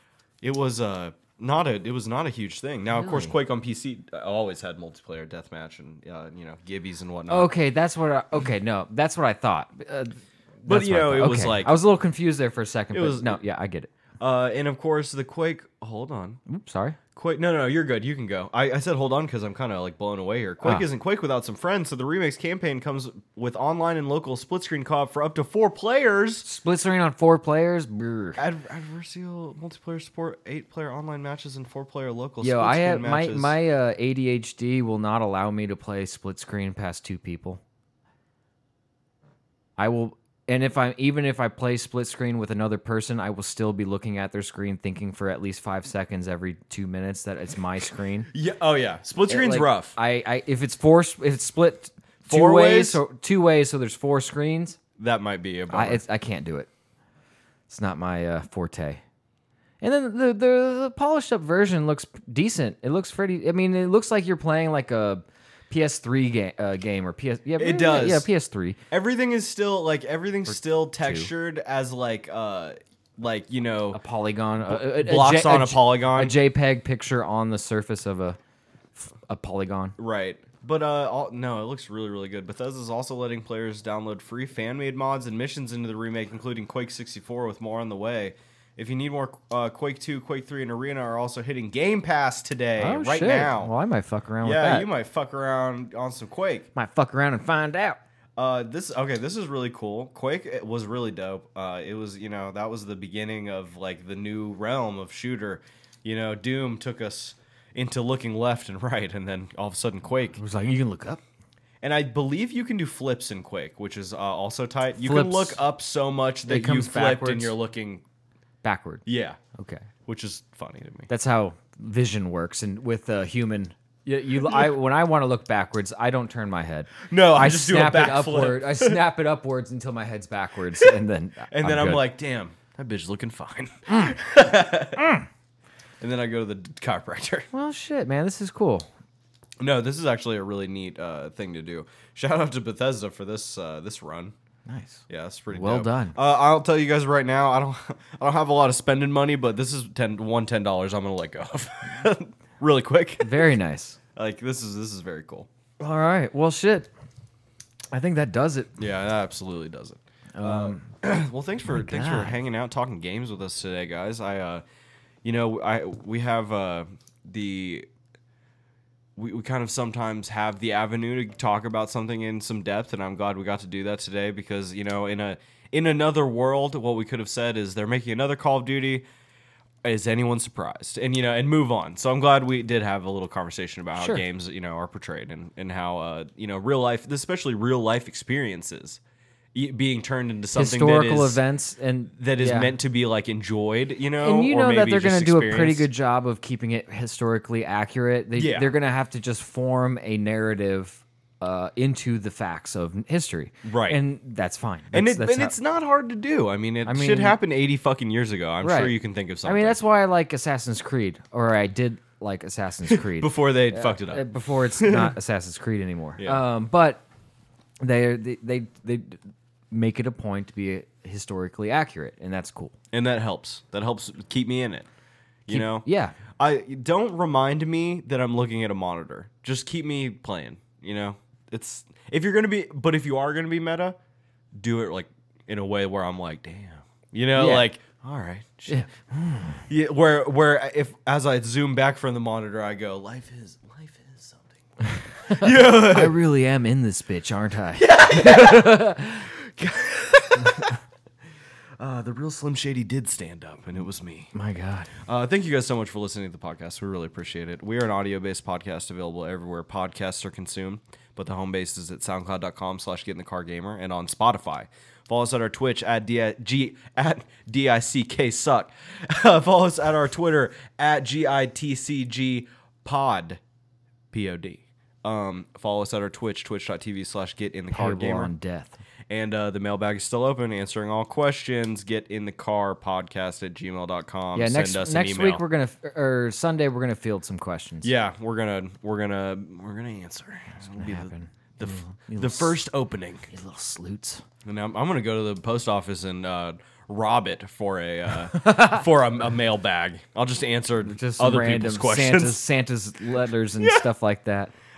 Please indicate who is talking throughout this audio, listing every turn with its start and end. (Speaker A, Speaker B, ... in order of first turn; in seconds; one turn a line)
Speaker A: 0.4-7.5
Speaker B: 3.0-3.3
Speaker B: 7.3-13.9
Speaker A: 10.7-11.8
Speaker A: 12.9-13.4
Speaker A: 14.2-16.4
Speaker B: 16.5-17.0
Speaker A: 17.1-26.4
Speaker B: 26.4-28.4
Speaker A: 28.4-33.5
Speaker B: 32.4-37.6
Speaker B: 39.8-48.3
Speaker A: 48.3-49.9
Speaker B: 49.3-54.8
Speaker A: 52.2-53.0
Speaker A: 55.0-56.0
Speaker B: 55.7-56.7
Speaker B: 57.7-59.0
Speaker B: 59.8-68.8
Speaker A: 67.6-68.3
Speaker A: 68.9-74.0
Speaker B: 71.0-71.3
Speaker B: 73.9-78.4
Speaker A: 74.6-76.3
Speaker B: 78.9-80.0
Speaker A: 80.0-93.7
Speaker B: 92.8-94.9
Speaker A: 94.4-96.7
Speaker B: 96.7-98.0
Speaker A: 98.3-110.4
Speaker B: 110.3-111.2
Speaker A: 111.8-118.0
Speaker B: 115.0-115.6
Speaker B: 116.5-117.5
Speaker B: 118.6-119.0
Speaker A: 119.0-119.4
Speaker B: 119.5-119.9
Speaker A: 120.0-121.1
Speaker B: 121.1-132.0
Speaker A: 127.1-129.0
Speaker A: 131.5-135.1
Speaker B: 133.9-134.1
Speaker B: 134.9-135.2
Speaker A: 136.0-137.5
Speaker B: 137.5-138.9
Speaker A: 139.6-144.3
Speaker B: 144.7-146.1
Speaker A: 145.1-153.5
Speaker B: 153.2-154.0
Speaker A: 154.1-155.5
Speaker B: 155.8-156.9
Speaker B: 157.9-158.7
Speaker A: 158.8-164.6
Speaker B: 160.3-160.9
Speaker B: 161.7-162.4
Speaker A: 165.2-167.9
Speaker A: 169.2-179.1
Speaker A: 179.8-189.0
Speaker B: 183.9-184.2
Speaker A: 189.5-191.4
Speaker B: 190.6-192.7
Speaker A: 192.2-195.9
Speaker B: 194.2-205.5
Speaker A: 198.3-198.7
Speaker A: 203.6-204.0
Speaker A: 204.9-209.8
Speaker B: 206.8-207.4
Speaker B: 208.6-217.0
Speaker A: 212.9-214.2
Speaker A: 214.8-215.2
Speaker A: 216.2-216.4
Speaker B: 217.8-222.7
Speaker A: 222.9-224.9
Speaker A: 225.4-234.0
Speaker B: 225.5-226.1
Speaker A: 234.6-238.9
Speaker B: 237.3-237.7
Speaker B: 238.7-239.6
Speaker A: 239.7-244.6
Speaker B: 244.9-249.3
Speaker A: 245.3-246.2
Speaker A: 247.8-250.8
Speaker A: 251.8-254.3
Speaker B: 254.3-254.9
Speaker A: 255.0-273.4
Speaker A: 274.1-278.3
Speaker B: 277.7-278.8
Speaker A: 279.1-285.4
Speaker B: 284.3-287.9
Speaker A: 287.8-293.3
Speaker B: 290.8-292.6
Speaker B: 293.3-294.2
Speaker A: 294.4-302.4
Speaker B: 298.4-298.8
Speaker B: 300.8-304.5
Speaker A: 303.6-303.9